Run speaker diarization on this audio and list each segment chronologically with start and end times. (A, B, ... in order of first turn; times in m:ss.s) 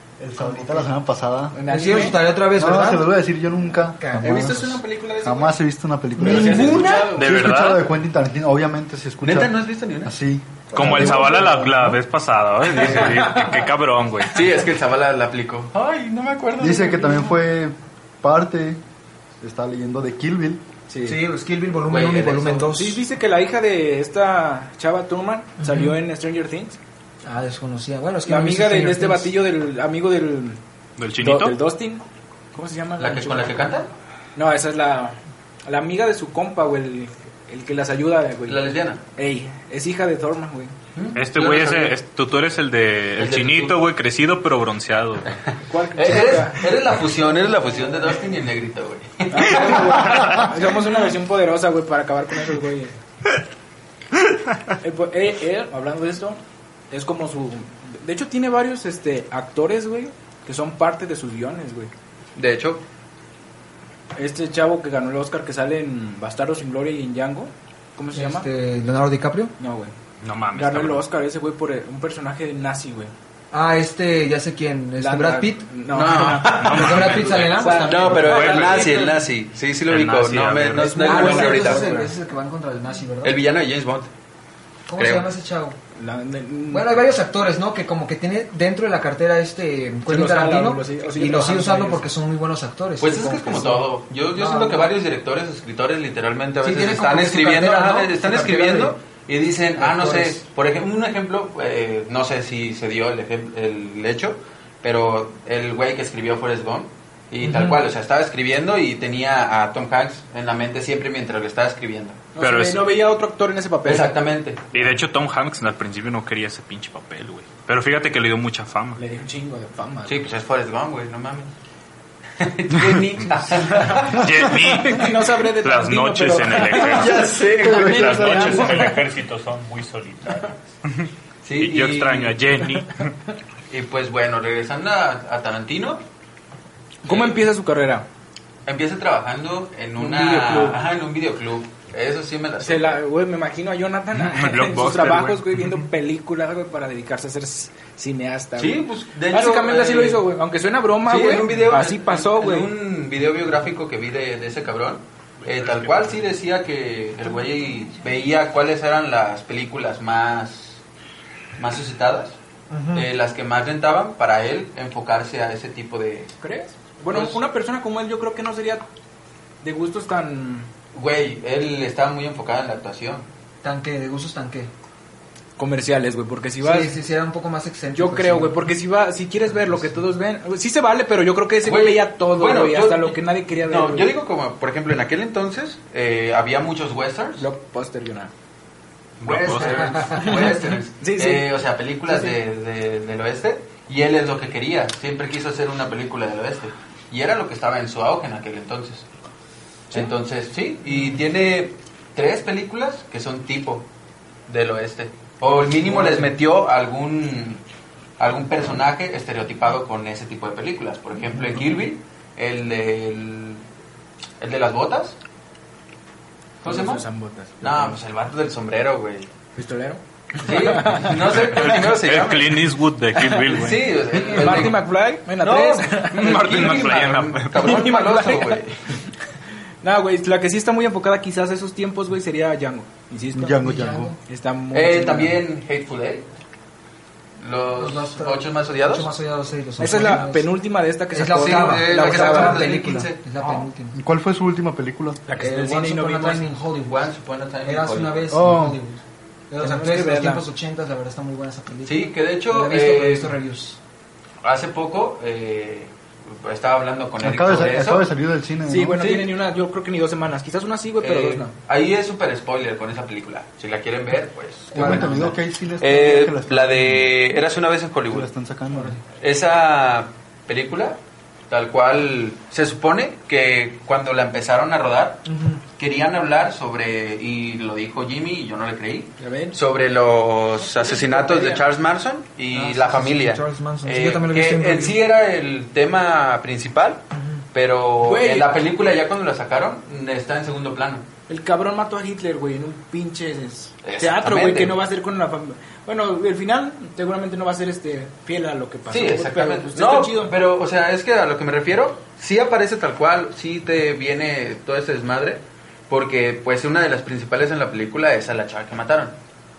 0:00.2-0:01.6 A
0:01.5-0:02.2 B
0:01.7-0:03.2 C
0:02.5-0:12.0 A
0:04.0-0:04.5 C
0:04.2-0:05.6 B
0:06.2-0:07.4 B
0:06.2-0:07.1 C
0:06.3-0:07.1 D
0:07.1-0:07.9 E
0:09.2-0:10.2 D
0:10.7-0:14.4 E
0:10.8-0:11.3 C
0:10.8-0:11.3 B
0:12.7-0:13.3 D
0:12.8-0:13.5 B
0:14.3-0:17.4 D
0:16.6-0:18.8 A
0:19.4-0:20.6 A
0:20.9-0:21.2 B
0:21.0-0:23.0 C
0:21.9-0:22.7 D
0:22.7-0:26.8 B
0:25.6-0:25.9 C
0:27.2-0:29.3 C
0:28.3-0:30.6 B
0:31.0-0:31.6 E
0:31.2-0:33.6 B
0:33.0-0:33.9 D
0:34.4-0:40.7 B
0:38.5-0:39.0 D
0:41.0-0:42.0 D
0:41.2-0:45.4 E
0:43.2-0:43.8 D
0:45.7-0:48.4 B
0:45.9-0:50.5 D
0:49.3-0:53.0 B
0:54.8-0:56.4 B
0:56.9-1:01.9 B
1:02.4-1:02.8 D
1:04.2-1:08.5 B
1:08.1-1:09.5 C
1:09.6-1:09.9 B
1:10.2-1:11.0 E
1:10.5-1:13.1 B
1:13.5-1:15.7 C
1:15.0-1:19.1 B
1:15.9-1:17.2 D
1:16.4-1:18.5 C
1:16.6-1:19.1 E
1:17.8-1:22.0 D
1:19.9-1:21.0 E
1:20.8-1:22.1 B
1:21.0-1:23.4 C
1:23.2-1:24.1 D
1:24.9-1:25.8 C
1:25.0-1:25.3 D
1:26.0-1:27.0 B
1:26.7-1:34.9 C
1:30.1-1:32.1 B
1:33.0-1:52.3 D
1:36.6-1:38.9 C
1:39.8-1:40.4 C
1:47.4-1:47.8 C
1:52.4-1:54.2 B
1:52.4-1:52.8 E
1:53.8-1:54.9 D
1:54.7-1:59.0 E
1:59.0-2:00.2 B
2:00.1-2:01.5 D
2:02.4-2:04.3 D
2:04.1-2:13.1 E
2:04.7-2:09.0 B
2:06.9-2:08.7 D
2:07.5-2:08.8 A
2:11.4-2:12.4 D
2:13.7-2:16.0 D
2:17.0-2:18.1 B
2:17.1-2:17.4 D
2:18.7-2:23.0 D
2:20.0-2:20.8 B
2:22.6-2:32.7 B
2:24.2-2:25.8 E
2:28.6-2:30.2 D
2:31.0-2:40.8 D
2:35.6-2:36.2 E
2:41.6-2:42.4 D
2:42.7-2:43.1 C
2:42.9-2:46.3 D
2:46.4-2:48.8 B
2:47.1-2:47.4 D
2:49.6-2:50.7 B
2:50.9-2:53.2 D
2:53.6-2:54.7 C
2:55.6-2:57.0 B
2:56.6-2:58.6 C
2:58.0-3:04.1 B
2:59.6-3:00.0 C
3:01.6-3:07.5 D
3:07.4-3:08.3 B
3:09.2-3:09.9 E
3:09.2-3:19.0 D
3:09.5-3:10.4 C
3:10.1-3:12.4 B
3:19.9-3:23.9 D
3:24.5-3:27.6 D
3:25.8-3:26.3 B
3:28.2-3:33.6 D
3:34.4-3:35.2 D
3:36.6-3:37.0 D
3:36.6-3:38.0 B
3:37.6-3:39.3 D
3:39.6-3:41.4 B
3:40.4-3:42.6 D
3:41.3-3:43.8 E
3:43.2-3:46.8 B
3:43.5-3:44.8 D
3:45.4-3:49.0 D
3:46.1-3:47.7 E
3:47.6-3:48.6 B
3:49.8-3:53.6 B
3:53.3-3:54.1 A
3:53.5-3:54.2 C
3:54.3-3:55.4 B
3:54.7-3:56.3 D
3:57.4-3:59.1 D
3:57.8-4:00.5 C
3:59.8-4:02.7 B
4:01.1-4:04.0 C
4:01.3-4:03.6 D
4:03.9-4:05.2 A
4:05.3-4:06.6 B
4:05.3-4:07.1 C
4:06.8-4:08.3 D
4:07.6-4:13.8 C
4:08.3-4:08.8 A
4:09.6-4:10.4 B
4:11.9-4:13.4 D
4:14.4-4:18.1 D
4:17.2-4:19.3 A
4:18.7-4:21.5 B
4:21.0-4:28.3 D
4:24.7-4:25.1 C
4:24.8-4:27.4 A
4:28.1-4:29.0 A
4:28.7-4:29.0 C
4:29.2-4:51.1 D
4:35.3-4:35.6 C
4:39.2-4:39.6 B
4:40.6-4:41.6 B
4:42.5-4:45.0 C
4:47.1-4:47.4 C
4:48.0-4:48.6 B
4:51.3-5:00.4 B
4:53.8-4:54.8 D
4:58.9-5:09.2 D